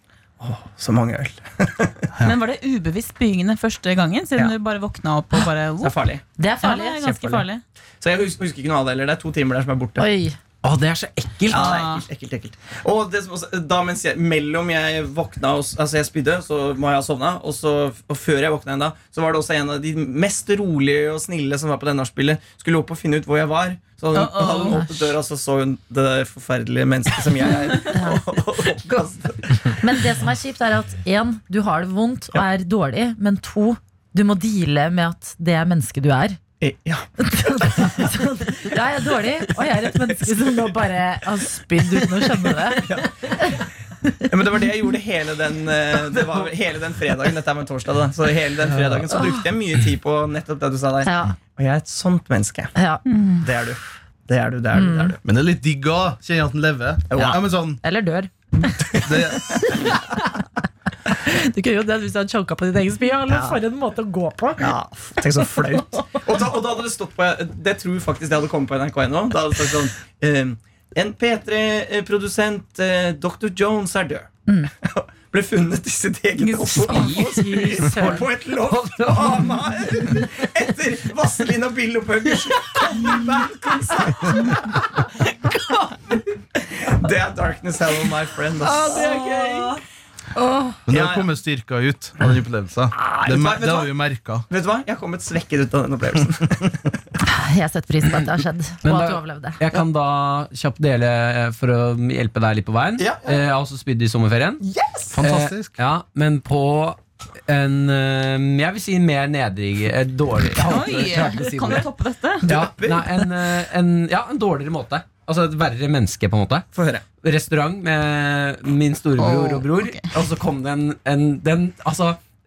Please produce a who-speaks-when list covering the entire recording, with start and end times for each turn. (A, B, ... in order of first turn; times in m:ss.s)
0:00.4-0:02.1 A
0:02.2-0:06.0 B
0:05.8-0:06.2 A
0:06.4-0:07.4 C
0:06.6-0:07.6 B
0:07.0-0:07.4 A
0:08.0-0:10.0 A
0:10.0-0:10.4 C
0:10.6-0:11.7 D
0:11.5-0:29.8 A
0:11.5-0:12.1 B
0:24.1-0:24.8 B
0:24.4-0:25.1 C
0:27.9-0:28.2 C
0:29.8-0:36.4 C
0:36.6-0:38.1 A
0:37.2-0:44.3 C
0:42.7-0:43.6 A
0:44.3-0:52.7 A
0:49.1-0:49.4 C
0:51.0-0:51.4 C
0:52.8-0:53.0 C
0:53.1-0:53.4 B
0:53.4-0:55.2 A
0:54.7-0:55.1 C
0:55.2-0:57.8 E
0:57.1-0:57.4 A
0:57.8-0:58.8 C
0:59.0-0:59.9 E
1:01.1-1:04.7 C
1:03.3-1:03.6 A
1:04.6-1:14.3 A
1:14.8-1:25.0 A
1:16.4-1:19.6 D
1:16.8-1:18.3 C
1:26.6-1:29.7 A
1:28.8-1:29.1 D
1:30.9-1:34.5 E
1:30.9-1:31.3 A
1:32.9-1:33.9 A
1:34.5-1:37.0 A
1:37.2-1:39.6 C
1:38.8-1:44.6 D
1:43.0-1:43.4 A
1:44.6-1:45.2 A
1:45.1-1:45.8 E
1:45.2-1:51.9 D
1:50.6-1:52.5 B
1:50.8-1:51.8 A
1:52.4-1:53.1 A
1:52.5-1:56.7 D
1:56.8-1:57.0 A
1:57.2-2:02.2 D
1:59.2-2:00.1 B